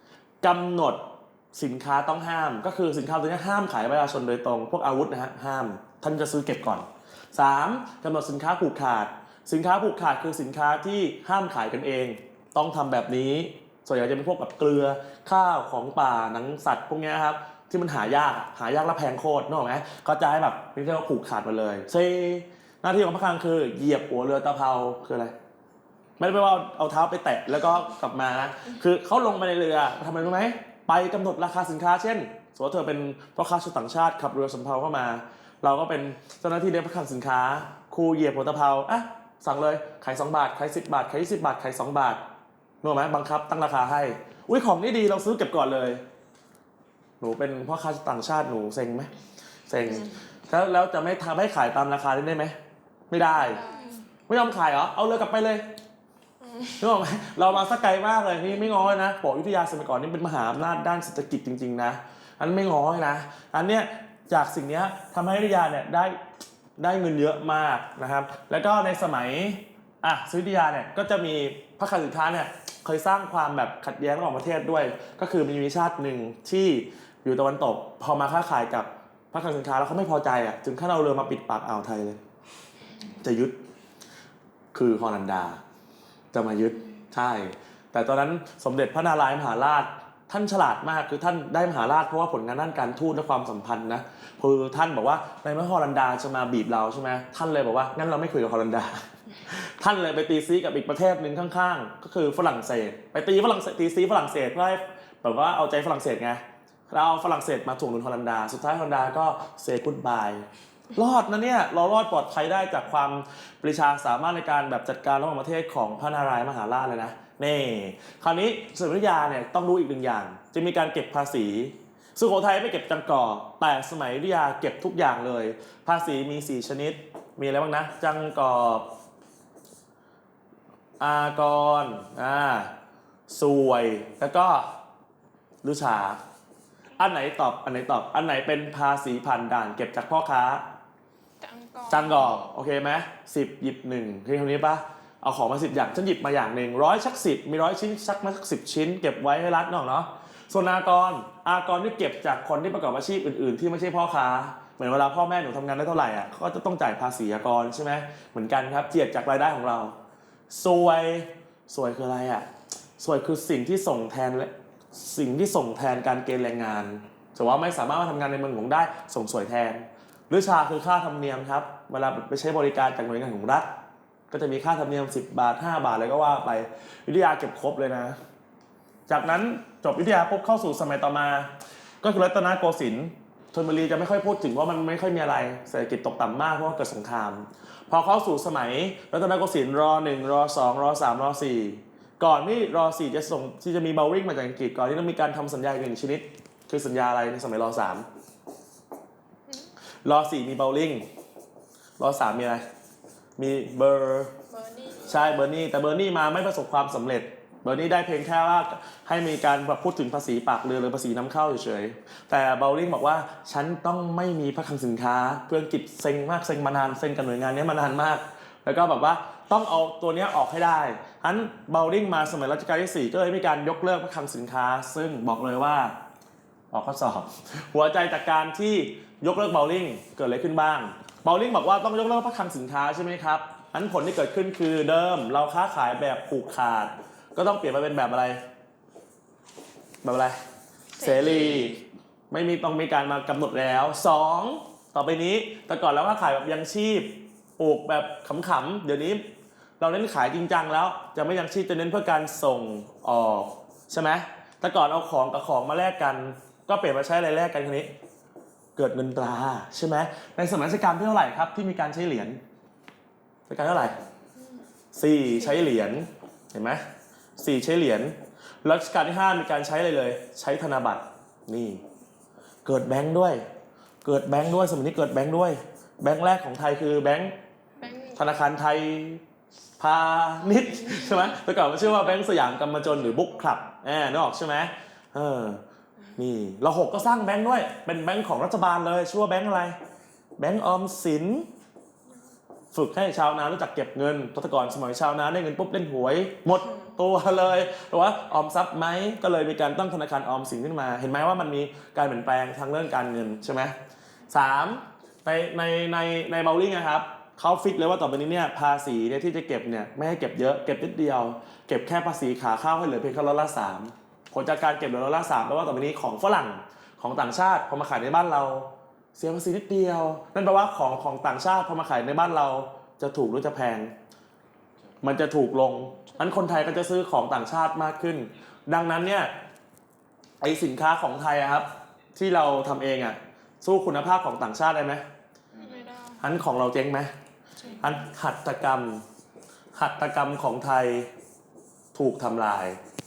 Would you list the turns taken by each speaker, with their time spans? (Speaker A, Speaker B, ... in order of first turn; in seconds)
Speaker A: 0.4-25.3, 26.2-42.2, 42.8-46.0, 47.2-49.1, 49.7-52.5, 53.1-53.6, 54.3-55.7, 56.8-66.2, 66.8-82.2, 83.2-83.6, 84.7-85.6, 86.3-128.9, 131.0-132.7, 133.3-134.7, 135.6-136.2, 137.0-140.7, 141.9-159.9, 160.5-162.5, 163.0-173.7, 174.3-178.2, 179.1-198.1, 200.0-201.0, 202.0-202.6, 203.4-204.3, 205.0-225.9, 226.7-238.4, 240.0-240.4, 241.0-249.2, 249.8-257.9, 258.8-262.4, 263.5-264.0, 264.9-266.8, 267.4-271.8, 272.6-273.4, 274.0-277.3, 278.1-279.2, 279.8-285.6, 286.2-289.8, 290.4-291.5, 292.7-303.7, 304.3-323.9, 325.0-329.3, 330.4-335.0, 336.2-337.1, 337.8-339.0, 339.7-341.1, 341.9-342.8
Speaker B: 53.3-54.0, 56.4-56.7, 141.4-142.4, 204.5-205.1, 241.0-241.4, 277.8-278.2, 335.6-336.2